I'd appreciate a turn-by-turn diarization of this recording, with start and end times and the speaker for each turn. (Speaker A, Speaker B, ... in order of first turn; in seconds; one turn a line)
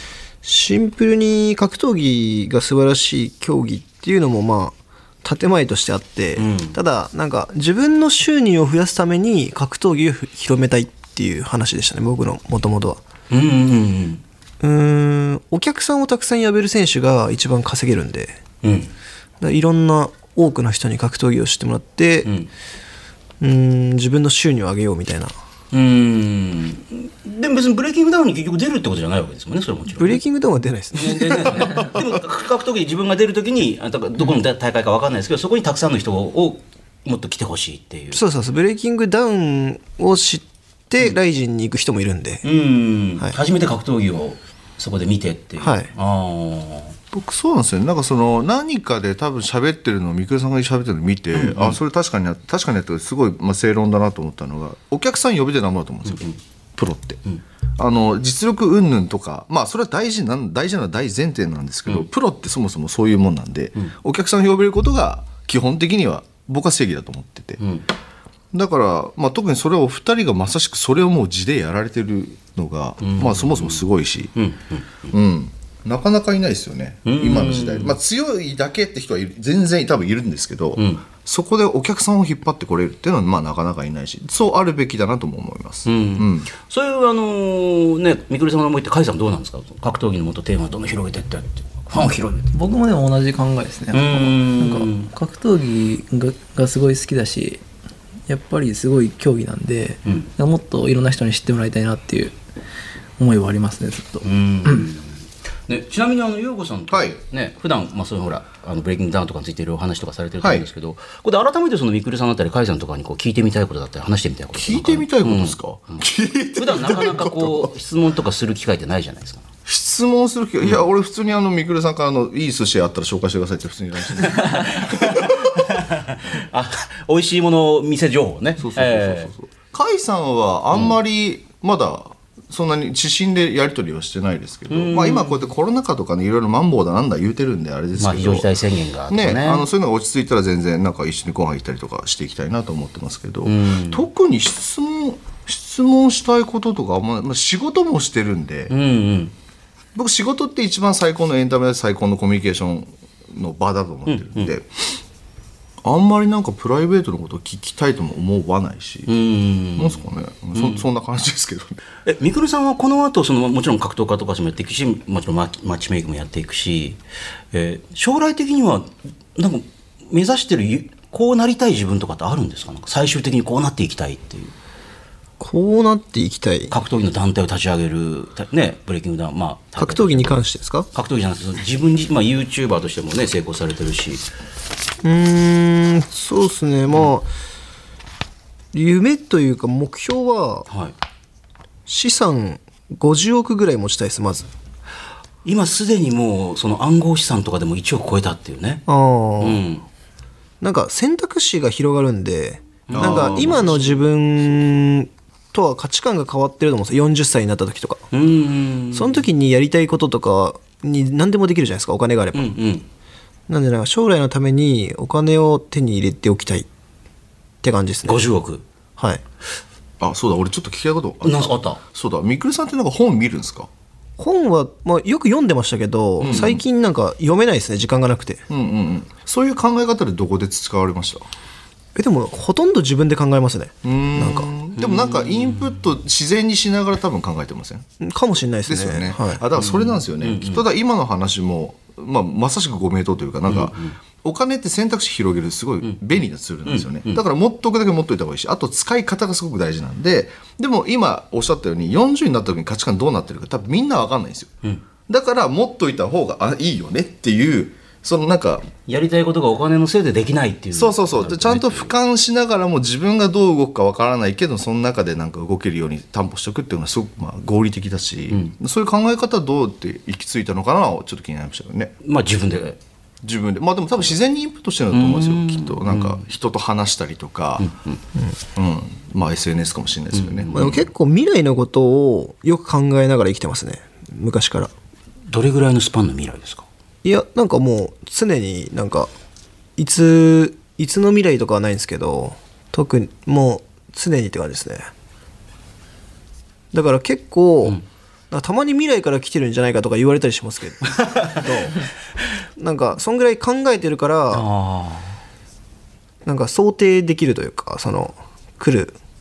Speaker A: 0.4-13.0
Speaker B: 6.4-6.8
Speaker B: 13.3-14.2
Speaker A: 14.6-18.4
Speaker B: 18.6-18.9
Speaker A: 19.4-22.3
Speaker B: 22.2-22.5
Speaker A: 23.4-25.3
Speaker B: 25.7-30.2
Speaker A: 30.0-32.0
Speaker B: 30.9-38.2
Speaker A: 38.1-42.4
Speaker B: 42.4-47.0
Speaker A: 45.6-45.9
Speaker C: 47.1-57.2
Speaker B: 51.3-51.8
Speaker B: 56.1-56.4
Speaker C: 57.8-67.6
Speaker B: 67.6-67.9
Speaker C: 68.5-74.3
Speaker B: 73.0-75.1
Speaker C: 75.1-86.5
Speaker B: 77.0-78.0
Speaker B: 80.8-81.0
Speaker B: 85.9-92.5
Speaker D: 92.5-97.6
Speaker B: 93.9-95.1
Speaker D: 98.3-102.4
Speaker D: 103.2-104.8
Speaker B: 104.2-116.0
Speaker C: 106.9-107.2
Speaker C: 110.4-110.7
Speaker C: 114.5-117.7
Speaker B: 116.6-119.5
Speaker C: 119.7-125.3
Speaker B: 124.2-129.3
Speaker C: 128.6-138.5
Speaker B: 130.7-131.0
Speaker B: 134.7-135.5
Speaker B: 138.0-139.7
Speaker C: 139.1-148.7
Speaker B: 143.4-144.1
Speaker B: 148.7-149.3
Speaker C: 149.9-155.0
Speaker B: 154.1-154.5
Speaker C: 155.8-159.1
Speaker B: 159.1-160.8
Speaker C: 159.8-161.8
Speaker B: 162.1-167.0
Speaker B: 167.5-174.6
Speaker A: 175.4-176.8
Speaker B: 176.7-184.3
Speaker A: 179.8-180.9
Speaker A: 185.0-187.3
Speaker A: 188.7-190.7
Speaker B: 190.7-190.9
Speaker A: 191.9-194.5
Speaker B: 195.4-198.8
Speaker A: 198.9-199.6
Speaker B: 199.4-199.8
Speaker A: 200.6-208.1
Speaker B: 202.9-204.0
Speaker C: 202.9-203.7
Speaker B: 208.1-209.2
Speaker A: 208.9-212.6
Speaker B: 212.3-212.9
Speaker A: 213.5-216.7
Speaker A: 217.6-218.3
Speaker B: 218.0-218.6
Speaker A: 219.0-219.2
Speaker C: 220.0-223.7
Speaker B: 221.2-221.8
Speaker A: 224.2-228.4
Speaker C: 226.2-226.6
Speaker C: 228.5-231.3
Speaker A: 231.9-234.6
Speaker C: 233.8-237.9
Speaker B: 234.8-235.8
Speaker A: 238.0-239.4
Speaker C: 238.7-254.5
Speaker B: 239.5-240.7
Speaker B: 243.5-244.0
Speaker B: 246.7-247.2
Speaker C: 255.1-258.7
Speaker B: 258.9-261.9
Speaker C: 260.7-271.9
Speaker B: 272.0-272.8
Speaker C: 273.2-277.7
Speaker B: 274.9-276.3
Speaker B: 277.6-278.0
Speaker C: 278.6-280.8
Speaker B: 280.1-280.8
Speaker A: 280.5-284.7
Speaker B: 285.3-286.7
Speaker A: 287.0-289.1
Speaker A: 289.8-294.9
Speaker A: 296.7-297.8
Speaker A: 298.3-301.9
Speaker A: 302.6-304.4
Speaker B: 304.3-305.2
Speaker A: 306.2-309.0